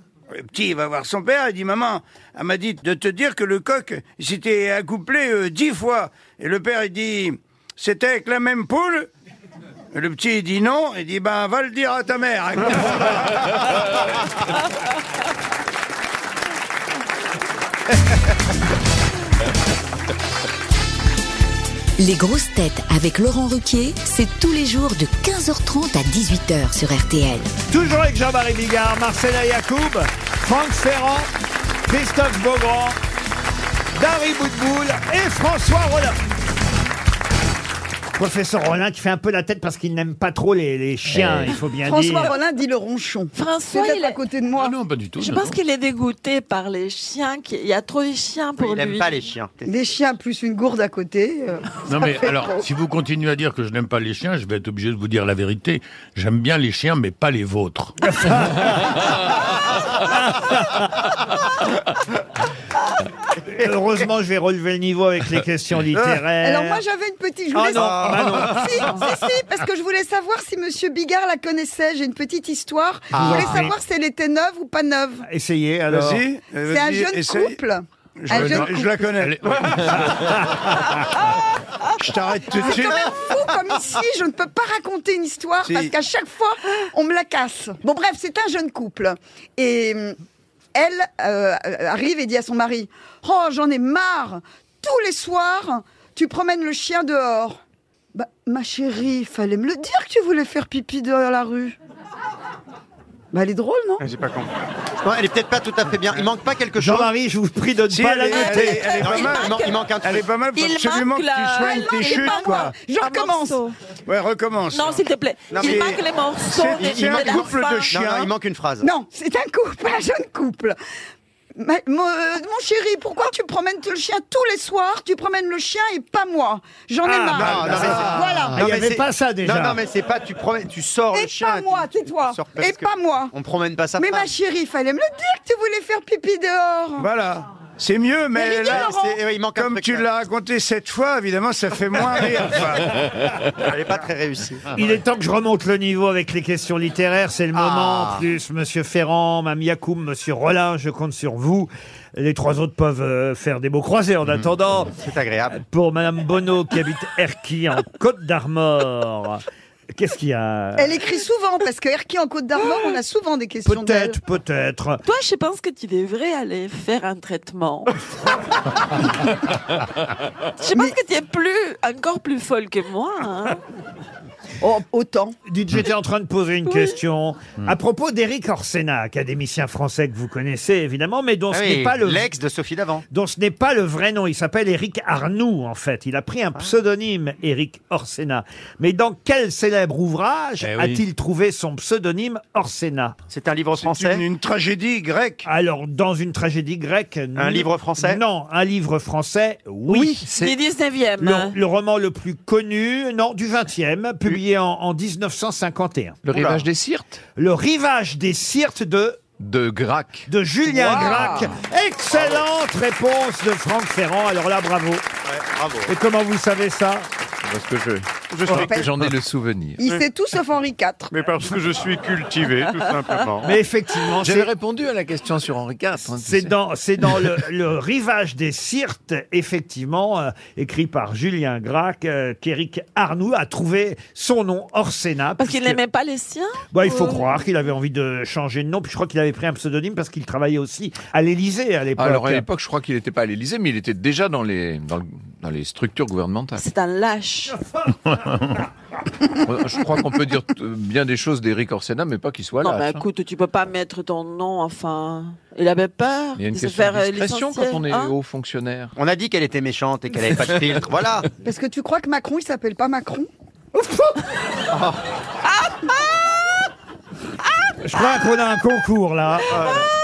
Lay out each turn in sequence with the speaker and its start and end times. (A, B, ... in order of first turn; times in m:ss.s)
0:00.4-0:09.1 A
0:09.9-0:13.5 A
0:22.0-0:27.5 B
0:27.7-0:31.3 C
0:31.8-0:33.0 C
0:34.0-0:36.2 C
0:38.2-0:42.3 C
0:41.1-0:41.5 D
0:41.8-0:44.8 E
0:43.3-0:44.2 F
0:44.6-0:45.6 G
0:45.2-0:49.2 F
0:48.6-0:49.7 H
0:49.7-0:52.6 E
0:51.9-0:58.0 G
0:58.0-0:59.0 C
1:00.1-1:00.9 C
1:03.6-1:06.8 C
1:06.4-1:15.2 E
1:07.5-1:08.9 C
1:07.7-1:08.7 H
1:13.1-1:13.7 H
1:13.1-1:13.8 C
1:15.2-1:16.2 C
1:15.9-1:17.6 A
1:16.7-1:18.9 E
1:18.2-1:20.1 A
1:18.3-1:20.3 G
1:20.1-1:20.5 C
1:22.0-1:23.1 A
1:22.6-1:30.2 E
1:25.6-1:25.9 A
1:30.8-1:37.6 E
1:38.1-1:41.8 E
1:43.3-1:44.0 E
1:44.0-1:44.4 H
1:45.0-1:47.1 H
1:46.8-1:48.9 C
1:47.9-1:52.8 A
1:48.3-1:49.8 F
1:49.0-1:50.3 H
1:50.5-1:53.8 F
1:51.6-1:53.6 E
1:54.1-1:55.0 A
1:54.7-1:57.9 F
1:55.5-1:55.9 H
1:55.6-1:58.3 A
1:56.8-1:58.9 H
1:58.8-2:00.8 E
2:01.6-2:08.7 E
2:07.0-2:09.8 C
2:07.3-2:14.3 H
2:07.5-2:08.2 A
2:11.1-2:13.3 E
2:14.0-2:17.1 E
2:17.0-2:18.9 A
2:18.3-2:19.2 E
2:18.7-2:20.1 H
2:19.5-2:23.0 A
2:23.6-2:24.6 H
2:24.7-2:35.0 C
2:27.5-2:28.2 H
2:35.0-2:35.6 H
2:35.5-2:40.9 C
2:40.8-2:44.2 E
2:43.6-2:45.0 C
2:45.0-2:48.0 F
2:50.6-2:53.6 F
2:54.6-2:55.4 E
2:55.5-3:02.3 C
2:56.7-2:57.0 F
3:01.5-3:03.0 H
3:03.1-3:13.2 C
3:10.6-3:11.0 G
3:13.3-3:14.2 H
3:13.8-3:15.4 A
3:15.4-3:20.2 C
3:17.4-3:18.2 H
3:20.2-3:21.6 F
3:21.2-3:26.2 C
3:26.2-3:27.2 D
3:26.3-3:26.6 H
3:27.4-3:29.2 C
3:29.4-3:30.3 D
3:30.3-3:35.0 C
3:30.8-3:31.5 F
3:32.1-3:32.4 A
3:35.3-3:35.9 H
3:35.9-3:37.1 C
3:37.4-3:39.9 D
3:38.3-3:38.7 I
3:38.5-3:38.9 E
3:39.8-3:41.2 E
3:41.1-3:43.5 I
3:43.4-3:44.5 C
3:44.2-3:46.6 D
3:46.2-3:55.8 C
3:55.4-3:57.3 F
3:56.7-4:02.4 C
4:02.0-4:06.6 D
4:06.6-4:07.6 F
4:08.1-4:08.6 G
4:09.4-4:13.0 D
4:12.6-4:18.1 F
4:16.4-4:18.9 D
4:19.0-4:21.3 H
4:21.4-4:23.3 E
4:23.8-4:24.2 C
4:24.7-4:25.0 H
4:27.8-4:29.6 C
4:29.5-4:29.8 H